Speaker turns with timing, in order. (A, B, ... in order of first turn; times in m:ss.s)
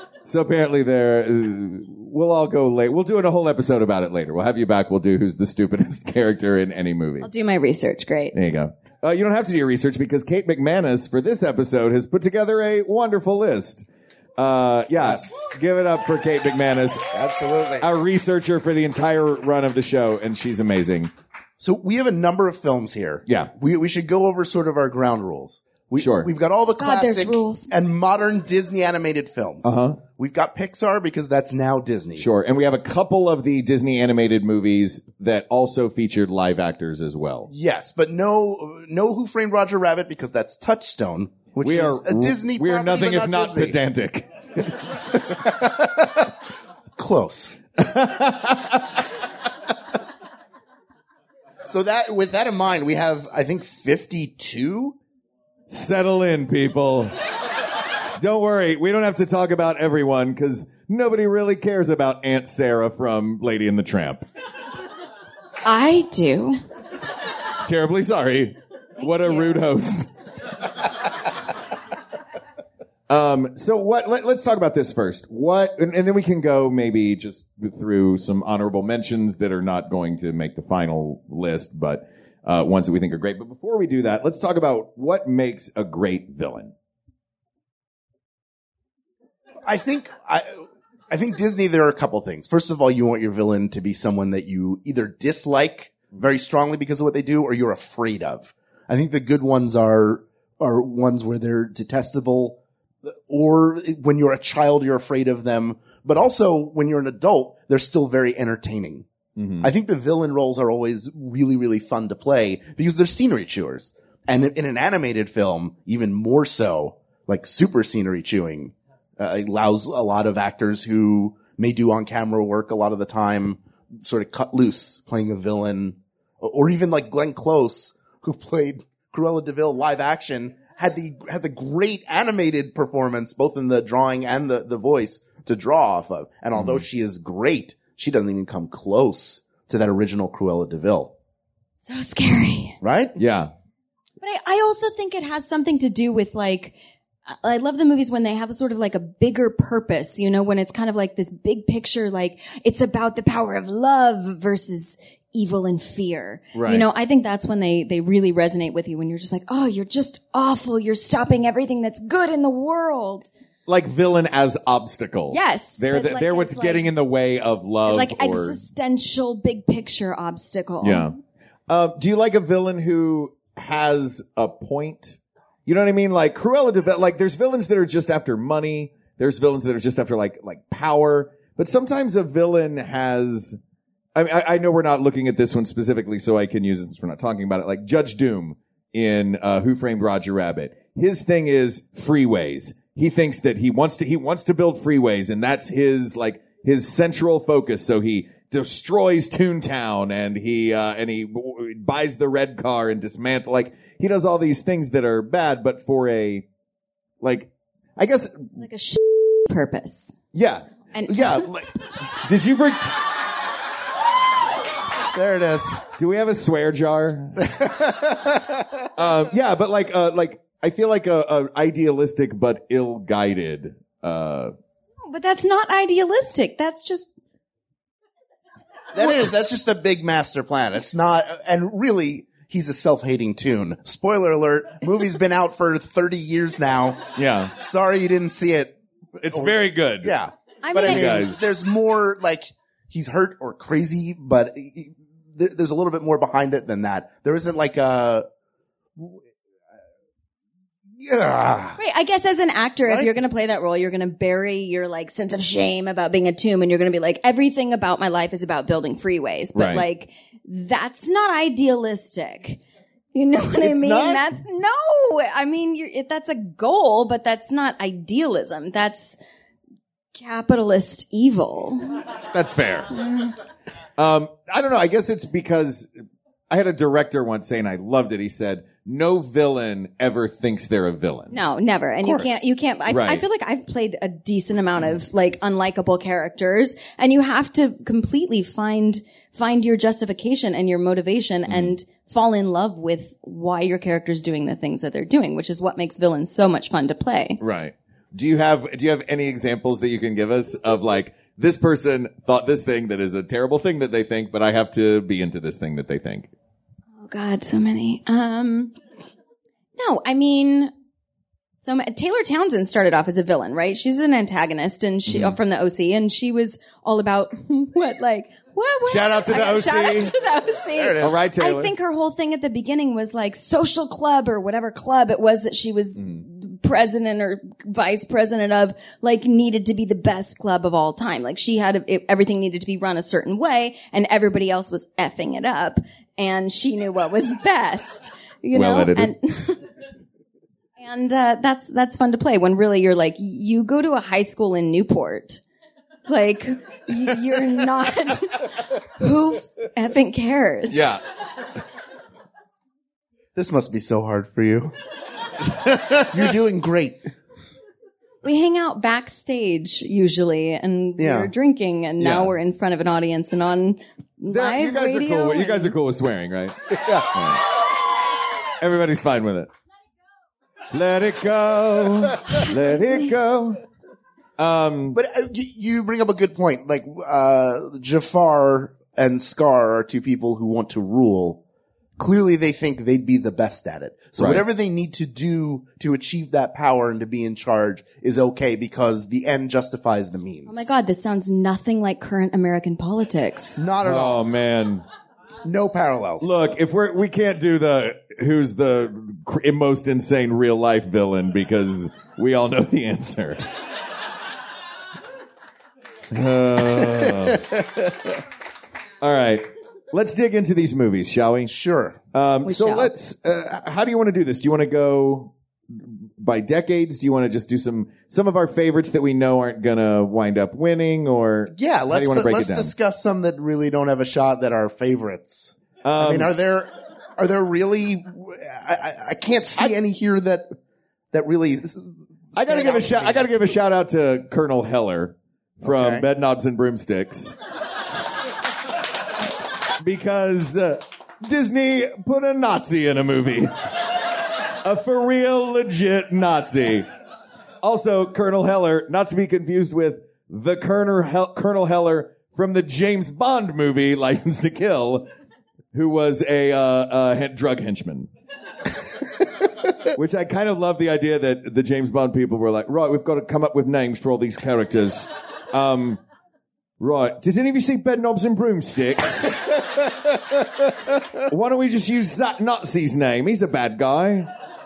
0:00.2-0:07.3 A
0:07.2-0:08.3 B
0:08.3-0:13.8 A
0:14.4-0:17.1 A
0:15.0-0:15.3 C
0:17.1-0:17.9 C
0:17.8-0:21.1 A
0:21.6-0:32.2 C
0:26.0-0:26.3 A
0:26.8-0:27.7 B
0:29.6-0:30.0 A
0:32.2-0:37.5 A
0:37.5-0:43.8 C
0:41.6-0:45.0 A
0:45.4-0:46.2 C
0:47.0-0:47.6 C
0:47.8-0:49.0 A
0:51.7-0:55.0 C
0:55.7-0:57.1 A
0:58.2-1:04.2 A
1:05.6-1:06.6 B
1:07.6-1:10.1 A
1:09.0-1:09.5 B
1:13.1-1:26.7 A
1:29.7-1:49.1 C
1:49.4-1:49.7 A
1:49.6-2:21.1 C
2:16.6-2:16.8 A
2:21.8-2:22.8 B
2:22.8-2:23.2 C
2:23.2-2:23.5 A
2:24.2-2:26.8 B
2:27.3-2:43.3 B
2:36.6-2:36.9 A
2:43.7-2:48.6 A
2:45.3-2:46.9 B
2:47.8-2:51.2 B
2:50.8-2:51.2 A
2:51.7-3:03.6 A
3:04.2-3:26.4 A
3:27.2-3:28.5 A
3:28.6-3:30.2 B
3:30.3-3:33.1 A
3:30.9-3:31.5 B
3:35.1-3:35.8 C
3:36.0-3:37.7 A
3:37.4-3:38.6 C
3:39.0-3:44.5 A
3:45.1-3:47.1 B
3:48.9-3:57.0 C
3:57.2-3:57.5 A
3:57.6-3:58.8 C
3:59.2-4:00.1 A
3:59.3-4:08.2 C
4:00.6-4:01.3 B
4:00.8-4:01.4 A
4:11.0-4:11.8 C
4:11.8-4:22.6 B
4:19.6-4:19.8 A
4:23.1-4:29.2 B
4:23.6-4:24.2 A
4:30.2-4:32.0 B
4:32.3-4:32.9 A
4:32.9-4:33.4 B
4:34.0-4:35.9 A
4:36.5-4:41.4 A
4:41.3-4:57.4 B
4:42.0-4:43.2 A
4:51.5-4:51.8 A
4:57.4-5:06.3 A
5:07.0-5:08.7 B
5:09.8-5:10.7 B
5:11.6-5:39.6 B
5:15.1-5:15.4 A
5:18.9-5:20.1 A
5:20.7-5:21.2 C
5:21.0-5:21.7 A
5:38.5-5:39.1 A
5:40.8-5:45.4 B
5:46.1-5:50.9 B
5:50.7-5:51.0 A
5:53.4-5:54.7 C
5:55.7-5:56.0 A
5:56.0-5:57.1 C
5:58.2-6:05.8 B
6:01.0-6:01.3 C
6:02.0-6:02.3 A
6:04.3-6:07.4 A
6:06.8-6:07.1 C
6:08.6-6:09.5 A
6:10.7-6:13.6 A
6:12.4-6:12.9 B
6:14.4-6:15.0 A
6:14.9-6:21.4 C
6:22.0-6:30.7 C
6:24.2-6:24.4 A
6:30.5-6:33.6 B
6:33.6-6:34.2 C
6:33.8-6:34.8 A
6:35.4-6:36.3 C
6:36.2-6:43.5 A
6:46.1-6:47.9 A
6:49.0-6:51.5 A
6:51.5-6:52.0 C
6:52.1-7:02.7 A
6:52.4-6:52.9 B
7:01.5-7:10.5 C
7:05.8-7:06.3 A
7:11.1-7:13.3 C
7:12.4-7:17.4 A
7:15.6-7:16.0 C
7:19.8-7:23.5 A
7:24.6-7:26.9 A
7:27.6-7:35.1 A
7:35.7-7:38.1 A
7:39.9-7:46.0 A
7:46.8-7:49.5 A
7:51.3-7:54.3 A